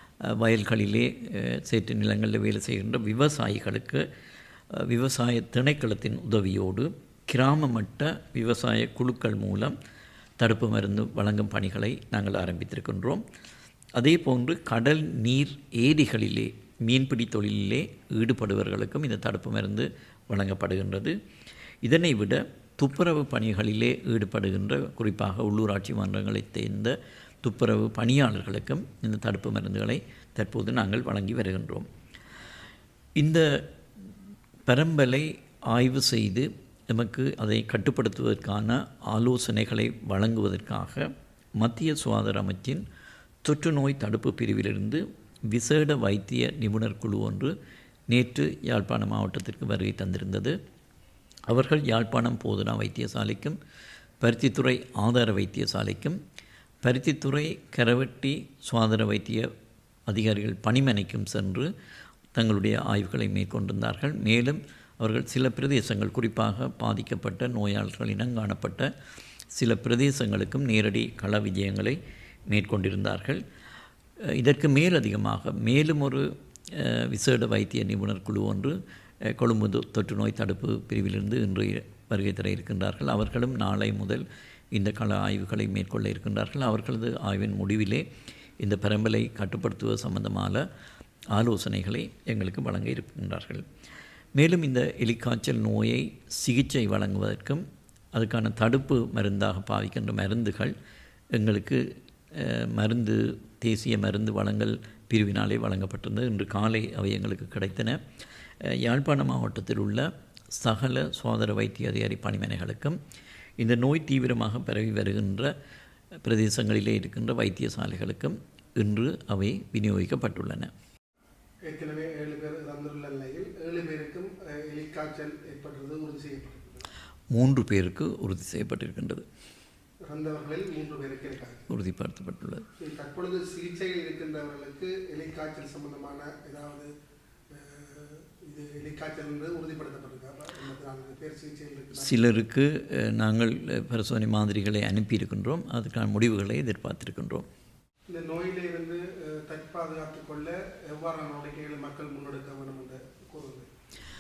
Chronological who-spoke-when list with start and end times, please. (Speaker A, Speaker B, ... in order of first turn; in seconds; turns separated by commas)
Speaker A: 0.2-4.1, Speaker A: 4.7-9.8, Speaker A: 10.4-13.2, Speaker A: 14.0-21.2, Speaker A: 21.8-31.9, Speaker A: 33.2-33.6, Speaker A: 34.7-42.8, Speaker A: 43.4-47.5, Speaker A: 48.1-50.6, Speaker A: 51.5-53.6, Speaker A: 54.2-56.2, Speaker A: 56.8-59.5, Speaker A: 60.1-61.7, Speaker A: 62.3-68.9, Speaker A: 69.5-73.4, Speaker A: 74.3-88.1, Speaker A: 88.6-90.7, Speaker A: 91.3-93.7, Speaker A: 94.3-100.8, Speaker A: 101.3-108.0, Speaker A: 108.6-113.0, Speaker A: 113.6-115.5, Speaker A: 116.2-120.7, Speaker B: 121.7-126.9, Speaker A: 127.3-129.3, Speaker B: 130.1-131.7, Speaker A: 131.7-132.7, Speaker B: 132.8-136.9, Speaker B: 137.5-142.2, Speaker A: 141.9-147.5, Speaker B: 148.1-153.7